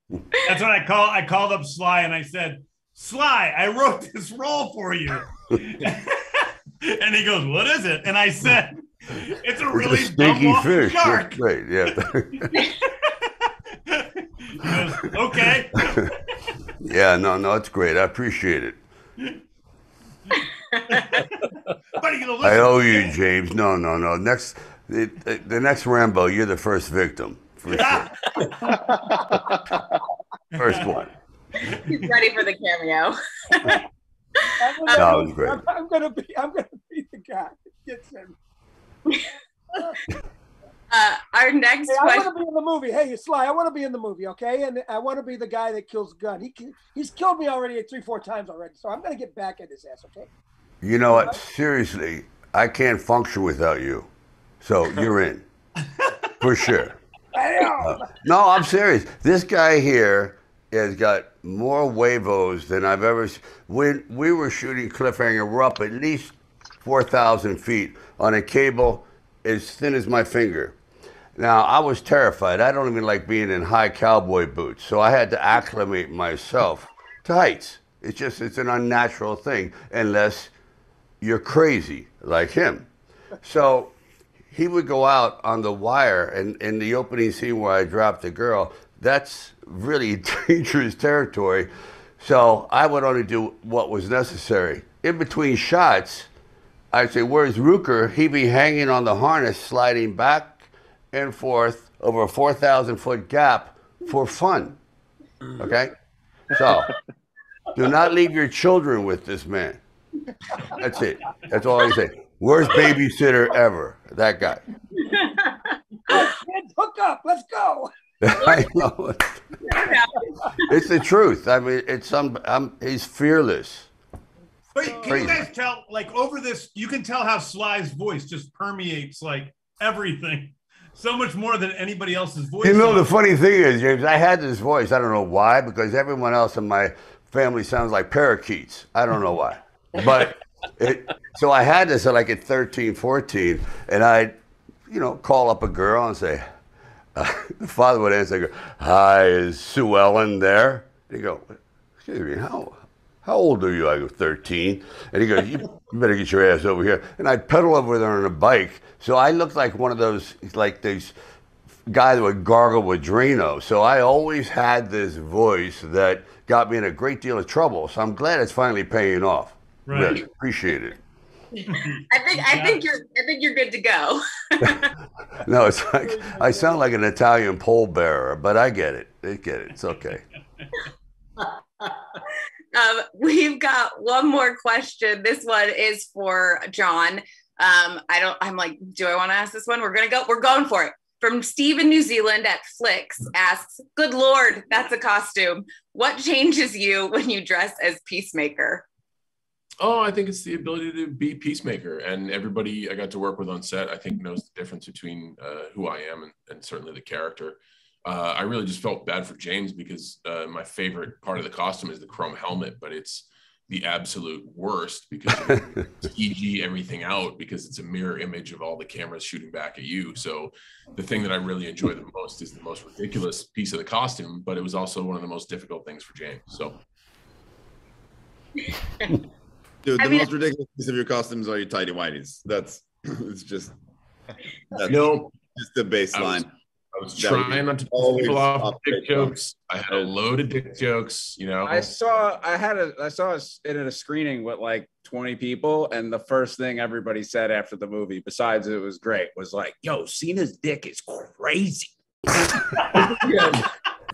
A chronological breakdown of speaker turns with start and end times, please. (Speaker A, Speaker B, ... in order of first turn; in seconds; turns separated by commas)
Speaker A: 0.4-11.9, Speaker B: 9.7-12.5, Speaker A: 13.9-16.1, Speaker B: 16.8-18.8, Speaker A: 20.9-21.2, Speaker A: 22.0-23.1, Speaker B: 22.4-28.1, Speaker A: 27.7-28.1, Speaker A: 30.5-31.0, Speaker B: 30.6-31.1, Speaker C: 31.7-33.8, Speaker D: 34.6-38.4, Speaker C: 34.8-35.1, Speaker B: 34.9-35.6, Speaker C: 40.9-42.3, Speaker D: 41.9-50.3, Speaker B: 50.8-54.1, Speaker B: 54.6-55.4, Speaker B: 56.4-57.0, Speaker D: 57.3-58.1, Speaker B: 57.7-70.8, Speaker B: 71.4-80.5, Speaker B: 81.2-82.9, Speaker B: 83.4-83.9, Speaker B: 84.5-96.3, Speaker B: 96.9-104.8, Speaker B: 105.6-105.9, Speaker B: 106.5-106.9, Speaker B: 107.8-109.8, Speaker B: 110.7-114.6, Speaker C: 115.1-115.7, Speaker D: 116.1-117.9, Speaker B: 118.2-119.3, Speaker C: 119.6-120.5, Speaker B: 120.7-123.9, Speaker A: 124.8-133.1, Speaker B: 124.8-125.4, Speaker B: 132.6-144.3, Speaker B: 144.9-146.4, Speaker B: 147.2-161.1, Speaker B: 161.9-171.0, Speaker A: 169.9-170.2, Speaker A: 171.7-172.8, Speaker C: 172.1-174.9, Speaker B: 175.4-180.2, Speaker D: 175.9-176.8, Speaker C: 182.7-198.9, Speaker E: 199.8-226.8, Speaker F: 229.8-233.7, Speaker C: 230.0-230.3, Speaker F: 234.7-236.5, Speaker E: 234.9-235.4, Speaker E: 236.1-241.9, Speaker F: 237.2-239.3, Speaker G: 241.7-251.9, Speaker E: 252.9-253.6